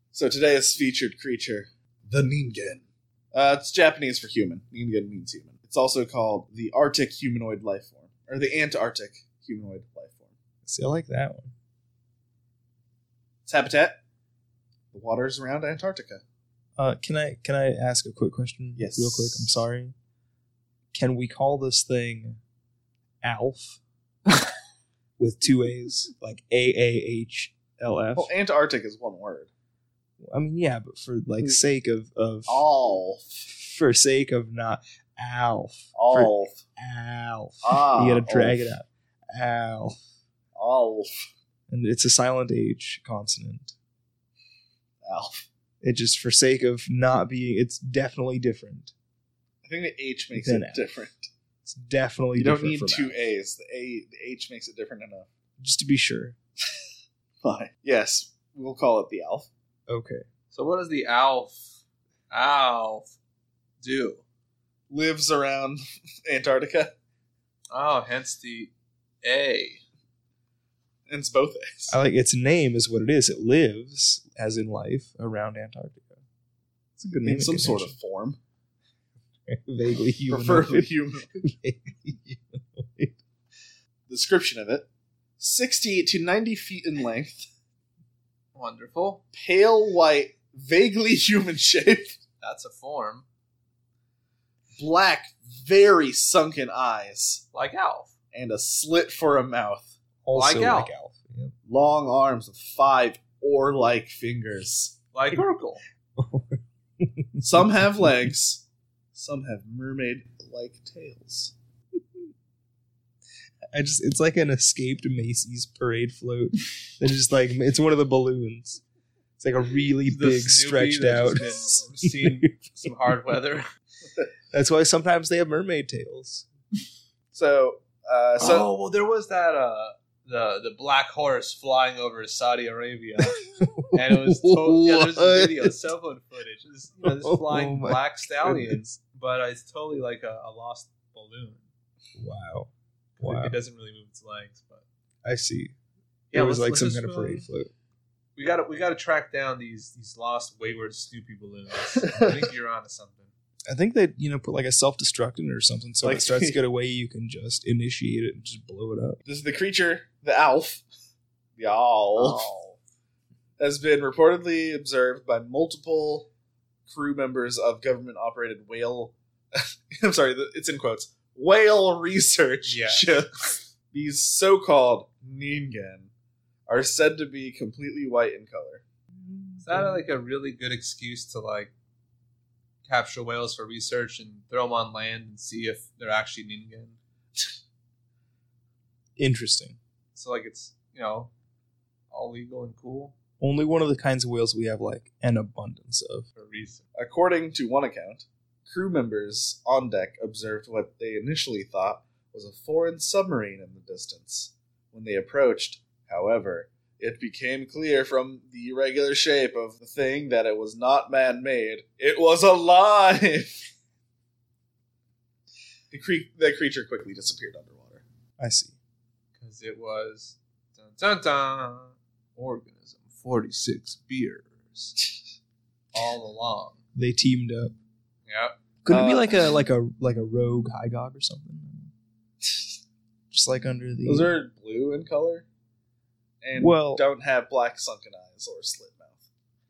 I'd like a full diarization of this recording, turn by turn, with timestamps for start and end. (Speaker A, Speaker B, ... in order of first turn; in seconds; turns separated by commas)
Speaker A: 0.1-10.3, Speaker B: 10.7-11.5, Speaker A: 13.5-14.0, Speaker A: 14.9-16.2, Speaker B: 16.8-19.9, Speaker A: 18.8-19.6, Speaker B: 20.9-22.4, Speaker B: 23.2-23.8, Speaker B: 25.2-28.3, Speaker A: 28.1-29.5, Speaker B: 30.2-32.6, Speaker A: 32.5-33.5, Speaker B: 33.5-40.0, Speaker A: 36.0-36.6, Speaker A: 37.6-38.6, Speaker A: 40.5-41.3, Speaker B: 41.7-43.7, Speaker A: 45.0-45.5, Speaker B: 45.8-48.9, Speaker A: 49.6-51.3, Speaker B: 50.3-50.8, Speaker B: 51.7-53.2, Speaker A: 52.4-55.3, Speaker B: 55.6-56.4, Speaker A: 57.4-59.5, Speaker B: 59.9-60.2, Speaker C: 60.5-61.7, Speaker C: 62.3-63.1, Speaker C: 63.8-64.2, Speaker A: 64.9-66.9, Speaker C: 67.7-68.7, Speaker C: 69.2-69.8, Speaker A: 71.1-72.0, Speaker B: 71.9-76.2, Speaker B: 77.0-78.0, Speaker A: 77.2-78.4, Speaker B: 79.5-83.2, Speaker A: 80.3-81.4, Speaker A: 84.1-84.9, Speaker A: 85.4-87.5, Speaker C: 88.5-89.2, Speaker A: 89.3-92.2, Speaker C: 92.4-93.2, Speaker A: 94.8-97.4, Speaker C: 97.5-98.1, Speaker A: 98.3-99.9, Speaker B: 100.2-101.5, Speaker C: 100.3-100.9, Speaker A: 101.7-105.0, Speaker C: 105.1-105.8, Speaker B: 106.2-108.3, Speaker A: 107.4-111.5, Speaker B: 113.7-118.8, Speaker B: 119.4-122.9, Speaker C: 120.0-123.6, Speaker B: 124.5-126.5, Speaker A: 127.3-128.7, Speaker C: 128.4-141.6, Speaker B: 133.2-135.8, Speaker B: 137.0-138.8, Speaker B: 142.2-143.6, Speaker C: 143.2-144.8, Speaker B: 145.2-145.7, Speaker C: 146.3-147.4, Speaker B: 146.3-147.7, Speaker C: 148.4-153.3, Speaker B: 153.7-159.2, Speaker A: 156.0-156.6, Speaker A: 159.3-160.8, Speaker A: 161.6-162.5, Speaker C: 162.2-162.8, Speaker A: 163.6-166.3, Speaker A: 166.9-176.1, Speaker C: 172.7-173.2, Speaker A: 176.7-178.8, Speaker B: 179.1-180.0, Speaker C: 179.6-181.7, Speaker C: 182.8-187.0, Speaker B: 189.2-189.8, Speaker C: 190.2-191.3, Speaker C: 192.1-193.1, Speaker B: 193.4-196.3, Speaker C: 196.4-196.8, Speaker A: 197.0-213.7, Speaker A: 215.9-218.0, Speaker B: 218.4-218.7, Speaker C: 219.4-225.0, Speaker C: 225.9-226.8, Speaker B: 226.9-227.8, Speaker C: 228.3-228.6, Speaker B: 228.8-231.9, Speaker A: 228.9-229.3, Speaker B: 233.3-234.3, Speaker A: 234.1-235.5, Speaker A: 236.4-239.2, Speaker B: 236.6-237.0